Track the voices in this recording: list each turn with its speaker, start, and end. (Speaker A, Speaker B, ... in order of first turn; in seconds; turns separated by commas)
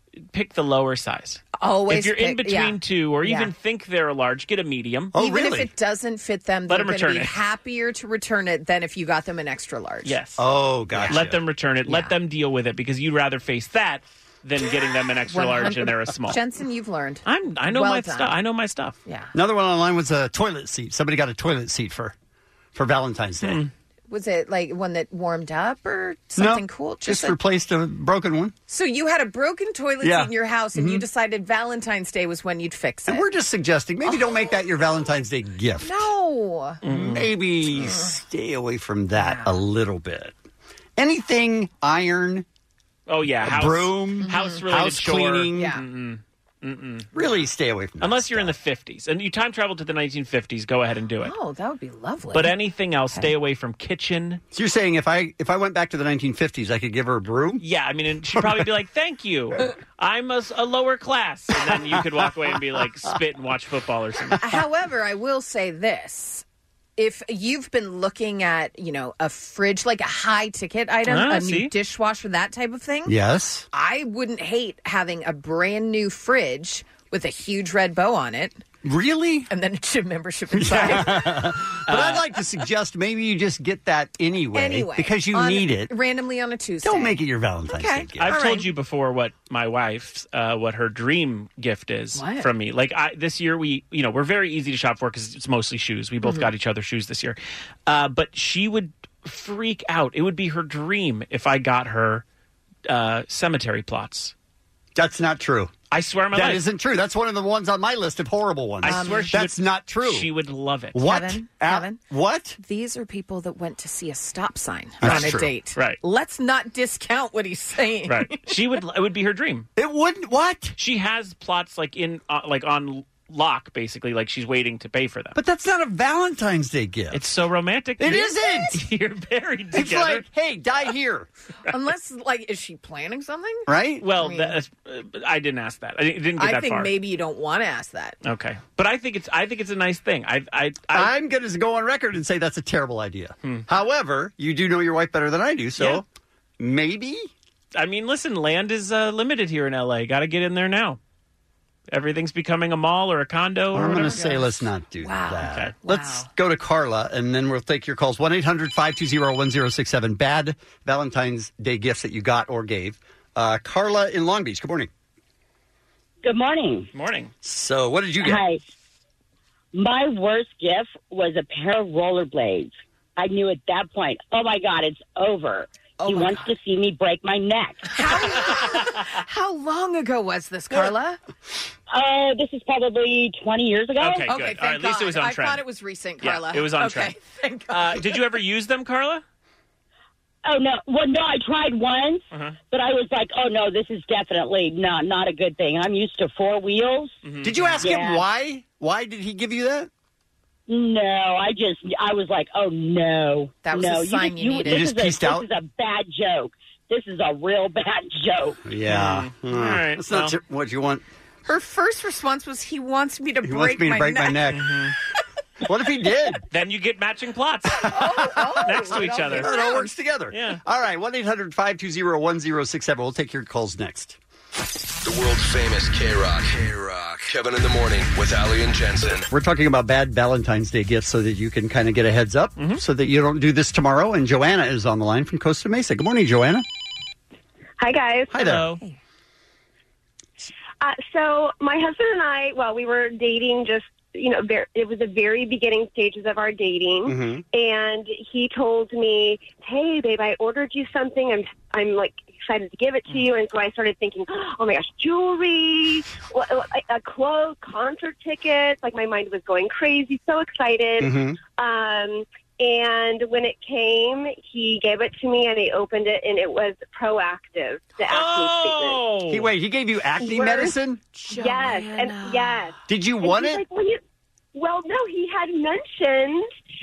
Speaker A: 0.3-5.1, Speaker B: 1.6-3.5, Speaker C: 5.1-5.7, Speaker B: 5.2-10.2, Speaker A: 6.7-7.4, Speaker A: 10.1-10.4, Speaker C: 10.4-11.4, Speaker B: 11.0-11.2, Speaker A: 11.0-16.4, Speaker B: 11.9-12.1, Speaker B: 15.3-18.3, Speaker A: 17.2-19.0, Speaker B: 19.1-19.3, Speaker C: 19.3-22.1, Speaker C: 22.7-23.6, Speaker A: 23.4-23.7, Speaker B: 24.1-27.4, Speaker C: 26.4-28.5, Speaker B: 28.7-33.3, Speaker C: 30.0-31.0, Speaker C: 33.1-36.0, Speaker B: 35.8-36.8, Speaker A: 36.8-37.3, Speaker C: 36.8-40.3, Speaker B: 37.7-38.1, Speaker B: 39.2-39.6, Speaker C: 41.0-42.5, Speaker A: 43.1-47.3, Speaker C: 43.4-45.7, Speaker B: 44.2-44.6, Speaker B: 45.5-45.8, Speaker C: 47.1-48.5, Speaker A: 48.0-51.3, Speaker B: 51.2-52.5, Speaker A: 52.3-54.4, Speaker C: 54.5-57.6, Speaker A: 57.6-64.6, Speaker C: 58.3-58.7, Speaker B: 64.4-66.5, Speaker B: 67.0-73.2, Speaker A: 71.1-71.7, Speaker C: 73.1-73.7, Speaker B: 73.7-78.6, Speaker C: 78.8-79.5, Speaker B: 79.5-81.3, Speaker C: 80.5-85.9, Speaker A: 81.9-82.2, Speaker B: 84.5-87.2, Speaker C: 86.8-88.4, Speaker B: 87.7-88.7, Speaker A: 88.2-102.2, Speaker B: 92.2-92.5, Speaker B: 96.2-96.5, Speaker A: 102.9-104.3, Speaker C: 105.0-105.7, Speaker A: 105.9-106.6, Speaker C: 106.3-110.3, Speaker A: 108.8-111.2, Speaker B: 108.9-109.3, Speaker C: 110.9-112.6, Speaker B: 111.0-112.0, Speaker B: 112.6-118.5, Speaker C: 115.0-115.5, Speaker A: 115.0-116.0, Speaker A: 118.1-119.7, Speaker C: 119.8-120.7, Speaker A: 120.8-125.4, Speaker C: 125.3-127.2, Speaker A: 127.1-130.2, Speaker C: 128.0-128.8, Speaker C: 129.7-131.3, Speaker B: 131.7-134.6, Speaker C: 133.7-134.0, Speaker A: 134.0-136.9, Speaker B: 136.4-138.2, Speaker A: 138.2-141.1, Speaker C: 140.9-146.1, Speaker A: 145.8-146.0, Speaker C: 146.6-147.3, Speaker A: 147.8-151.0, Speaker A: 151.9-154.3, Speaker C: 153.7-164.9, Speaker B: 153.8-156.3, Speaker A: 155.4-155.7, Speaker D: 166.2-166.9, Speaker A: 166.9-167.3, Speaker C: 167.4-168.5, Speaker D: 168.2-168.6, Speaker D: 169.7-177.8, Speaker B: 176.0-176.5, Speaker B: 177.8-181.2, Speaker D: 181.9-184.2, Speaker A: 184.0-185.6, Speaker B: 184.3-188.1, Speaker A: 186.2-187.2, Speaker A: 187.7-189.2, Speaker D: 190.5-197.1, Speaker A: 192.3-192.6, Speaker A: 197.2-197.9, Speaker C: 197.4-199.9, Speaker D: 197.8-198.2, Speaker D: 200.7-208.6, Speaker B: 203.6-205.0, Speaker C: 204.7-205.5, Speaker C: 208.6-211.0, Speaker A: 208.9-210.3, Speaker B: 211.4-214.5, Speaker C: 213.4-214.7, Speaker A: 214.5-214.9, Speaker C: 215.6-216.4, Speaker A: 216.5-217.9, Speaker B: 217.9-219.9, Speaker A: 218.6-219.6, Speaker C: 218.8-224.2, Speaker A: 220.3-220.6, Speaker E: 225.0-229.3, Speaker C: 229.3-236.6, Speaker F: 237.8-238.3, Speaker C: 238.3-238.7, Speaker A: 238.3-238.8, Speaker F: 240.8-269.0, Speaker C: 247.1-247.4, Speaker C: 261.0-261.4, Speaker A: 268.1-269.5, Speaker C: 269.3-271.0, Speaker F: 270.2-270.8, Speaker B: 271.2-272.7, Speaker F: 271.3-274.0, Speaker C: 272.9-273.6, Speaker F: 274.5-276.5